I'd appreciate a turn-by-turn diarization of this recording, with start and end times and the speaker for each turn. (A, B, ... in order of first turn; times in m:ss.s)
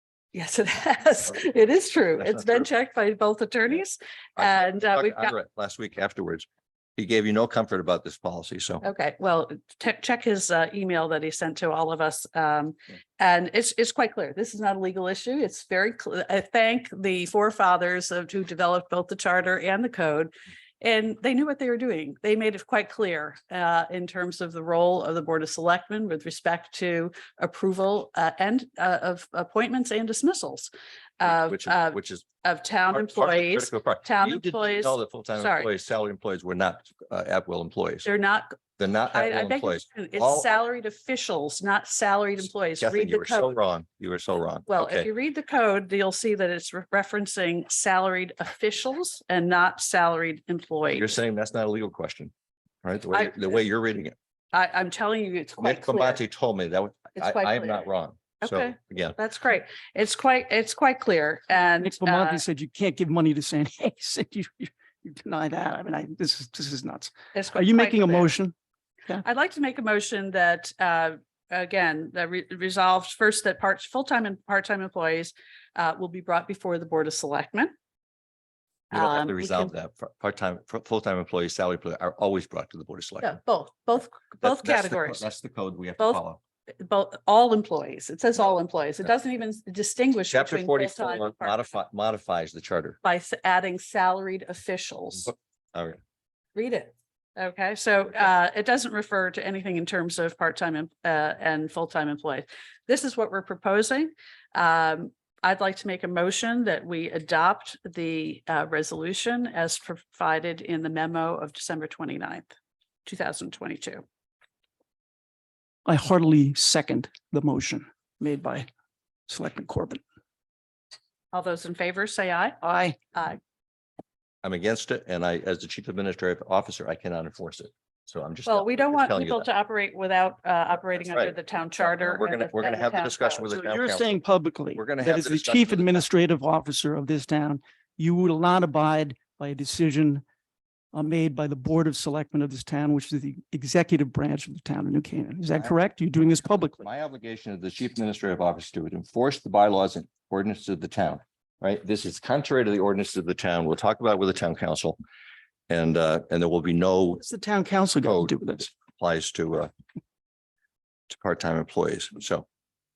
0:00.3-0:05.3 A
0:02.2-0:02.7 B
0:04.4-0:08.9 B
0:08.8-0:35.7 A
0:31.2-0:32.3 B
0:32.9-0:38.1 B
0:38.0-0:38.6 A
0:38.8-0:40.5 B
0:39.1-0:43.5 A
0:42.8-0:45.1 B
0:44.7-0:51.2 A
0:51.0-0:52.3 B
0:52.8-0:54.2 B
0:53.1-0:53.6 A
0:54.5-0:56.2 A
0:55.6-0:59.2 B
0:57.2-0:57.8 A
0:58.4-1:02.4 A
1:01.8-1:08.5 C
1:07.3-1:08.3 A
1:09.2-1:17.7 A
1:18.9-1:19.7 A
1:18.9-1:23.4 B
1:23.2-1:25.3 A
1:24.4-1:26.4 B
1:26.8-1:31.8 A
1:30.3-1:33.0 B
1:33.0-1:35.3 A
1:35.3-1:36.0 B
1:36.6-1:52.5 A
1:53.1-1:54.0 A
1:55.8-1:58.7 C
1:59.3-2:00.0 C
2:01.3-2:02.6 A
2:02.6-2:03.0 C
2:03.1-2:03.4 A
2:04.4-2:09.5 B
2:08.5-2:13.7 A
2:11.0-2:14.2 B
2:13.6-2:20.2 C
2:14.8-2:16.0 B
2:20.9-2:26.9 C
2:26.8-2:35.0 B
2:35.7-2:37.2 B
2:37.2-2:38.7 C
2:38.0-2:39.7 B
2:41.1-2:42.5 B